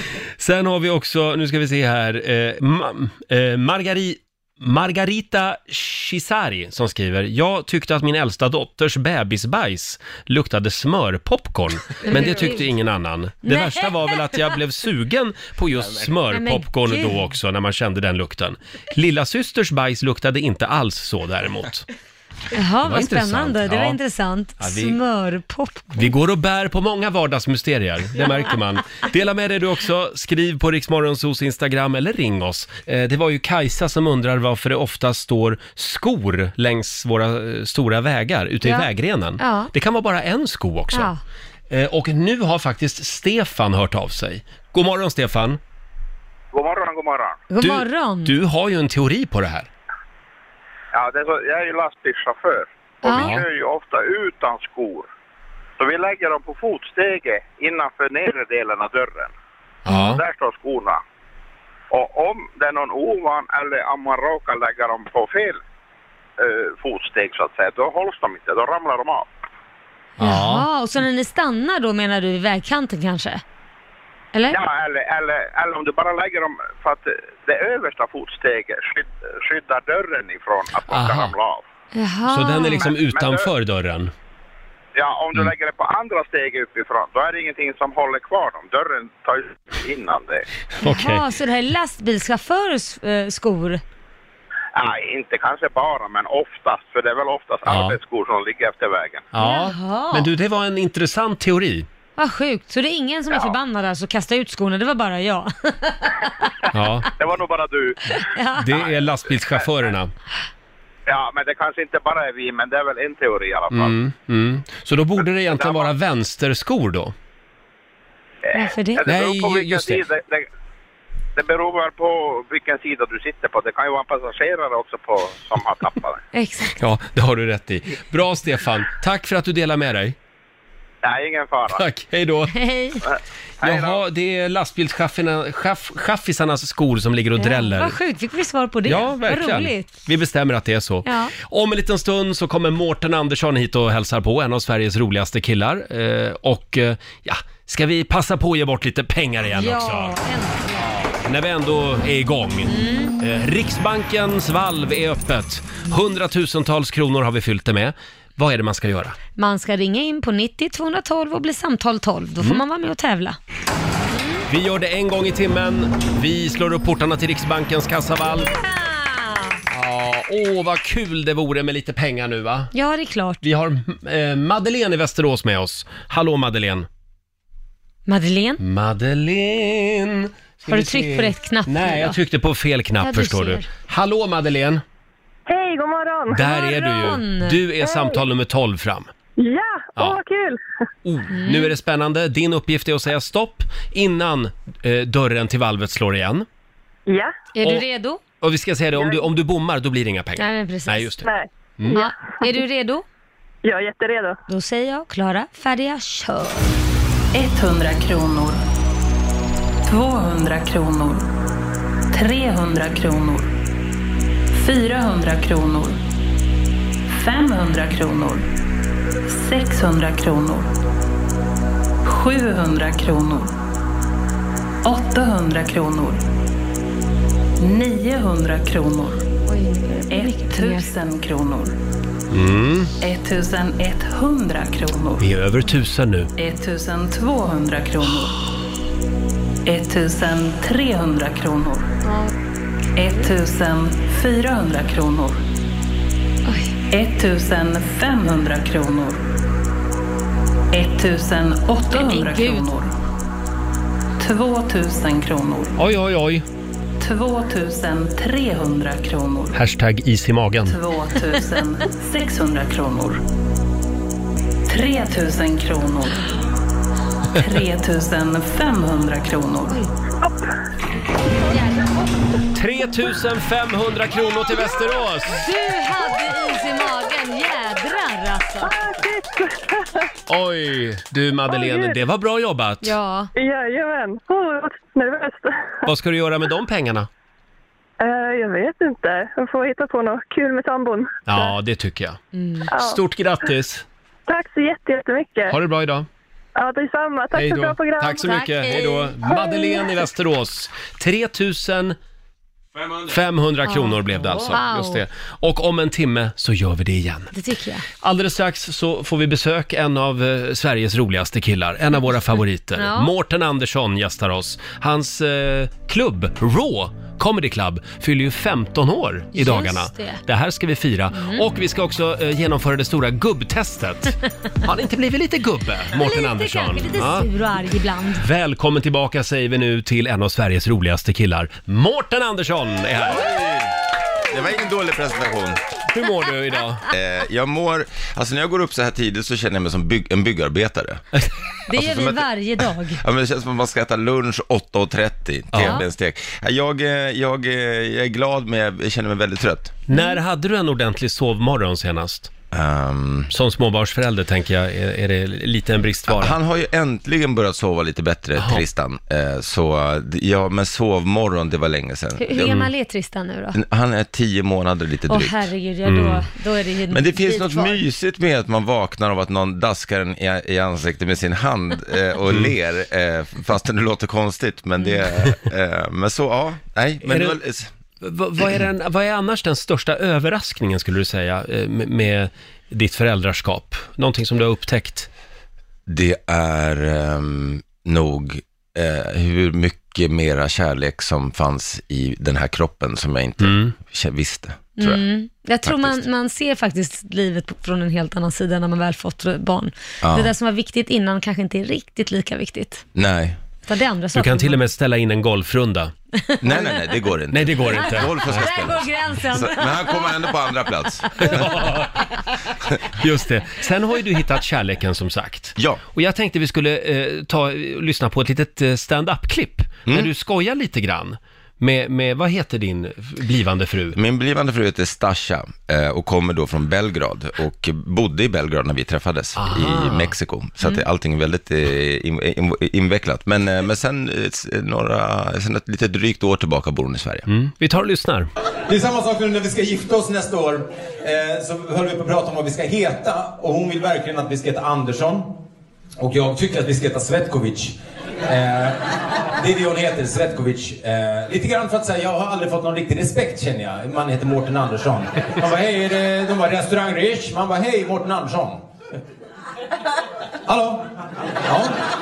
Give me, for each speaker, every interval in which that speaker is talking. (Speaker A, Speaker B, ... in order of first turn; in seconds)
Speaker A: 0.4-21.9, 22.8-24.0, 24.6-25.0, 25.9-41.1, 41.7-45.6, 47.6-49.7, 53.1-53.4, 59.9-60.2, 70.2-70.7, 80.9-81.3, 82.3-84.1, 90.8-91.3, 97.7-98.0, 99.3-101.9, 106.7-107.1, 108.6-110.1, 113.7-117.1, 119.0-120.0, 126.8-130.2, 131.7-132.6, 133.6-138.0, 138.8-150.2, 150.8-159.2, 164.5-168.5, 169.7-172.7, 173.4-176.9, 178.6-184.8, 186.3-189.1, 191.1-196.5, 198.4-201.3, 232.3-232.9, 235.2-236.3, 255.8-256.4, 259.5-260.8, 272.5-275.4, 280.3-283.0, 285.9-287.1, 291.3-292.2, 292.8-293.9, 295.5-296.1, 297.3-302.0, 303.1-307.3, 308.0-327.3, 328.2-333.3, 335.9-336.9, 345.5-345.8, 349.9-352.3, 353.3-356.4, 358.4-358.6, 362.4-362.7, 365.9-366.3, 377.0-377.4, 378.0-385.1, 393.4-393.8, 404.1-405.9, 407.3-408.5, 411.2-412.0, 412.9-424.0, 429.4-430.1, 437.3-438.3
Speaker B: 12.1-12.7, 13.4-13.9, 16.3-17.1, 22.5-26.1, 38.6-39.7, 40.9-41.2, 47.5-48.3, 53.0-53.4, 59.9-60.2, 70.2-73.4, 74.3-74.6, 81.9-82.9, 90.8-93.8, 99.4-100.3, 102.2-106.3, 108.2-108.8, 118.5-119.0, 126.3-126.8, 132.5-133.0, 137.4-139.9, 141.1-141.3, 149.5-150.9, 152.7-153.2, 159.4-163.4, 164.1-164.4, 168.5-169.6, 172.7-173.4, 178.1-178.6, 180.7-182.2, 183.0-183.7, 186.4-187.6, 191.3-191.7, 197.6-198.2, 200.4-201.1, 201.9-203.0, 204.5-206.7, 229.5-230.9, 242.0-242.3, 246.5-246.7, 251.9-252.7, 271.6-271.9, 275.3-278.8, 282.8-283.3, 292.3-292.7, 298.2-299.2, 303.7-305.0, 307.3-307.9, 312.8-313.1, 319.4-320.2, 321.1-321.4, 325.9-328.3, 341.7-343.0, 349.9-350.2, 362.2-363.6, 365.1-367.8, 394.8-402.9, 403.7-404.6, 406.2-406.8, 408.1-410.3
Speaker C: 46.5-47.4, 50.9-55.1, 55.8-59.3, 60.1-61.0, 61.9-65.6, 66.4-69.3, 74.5-81.7, 82.8-83.5, 85.0-90.4, 94.8-99.3, 107.2-108.0, 111.1-113.9, 115.5-115.9, 118.5-120.5, 121.3-126.2, 131.0-131.8, 133.1-134.0
Speaker D: 185.5-186.4, 187.8-188.2, 189.4-190.6, 197.1-197.3, 201.2-202.4, 203.6-204.4, 278.6-280.1, 281.5-282.0, 283.4-285.8, 288.0-291.5, 292.7-293.0, 294.3-295.6, 296.6-298.4, 299.2-299.8
Speaker E: 207.3-208.6, 209.8-211.3, 212.1-213.5, 214.5-216.0, 217.1-218.5, 219.3-220.7, 222.1-223.5, 224.8-226.2, 227.6-229.2, 230.1-231.8, 233.0-235.3, 236.4-238.4, 239.7-241.9, 243.0-245.4, 246.9-249.2, 250.7-252.9, 254.2-255.8, 257.0-259.6, 260.7-263.2, 264.7-266.4, 267.4-269.8
Speaker F: 333.1-335.6, 336.9-341.0, 341.7-349.8, 352.5-353.3, 356.1-362.5, 363.5-365.5, 366.9-377.7, 385.9-395.0, 395.6-396.0, 400.0-400.3, 402.9-403.4, 406.4-411.5, 423.9-437.3
Speaker G: 438.7-445.4, 446.0-458.6, 460.5-460.9, 461.4-461.8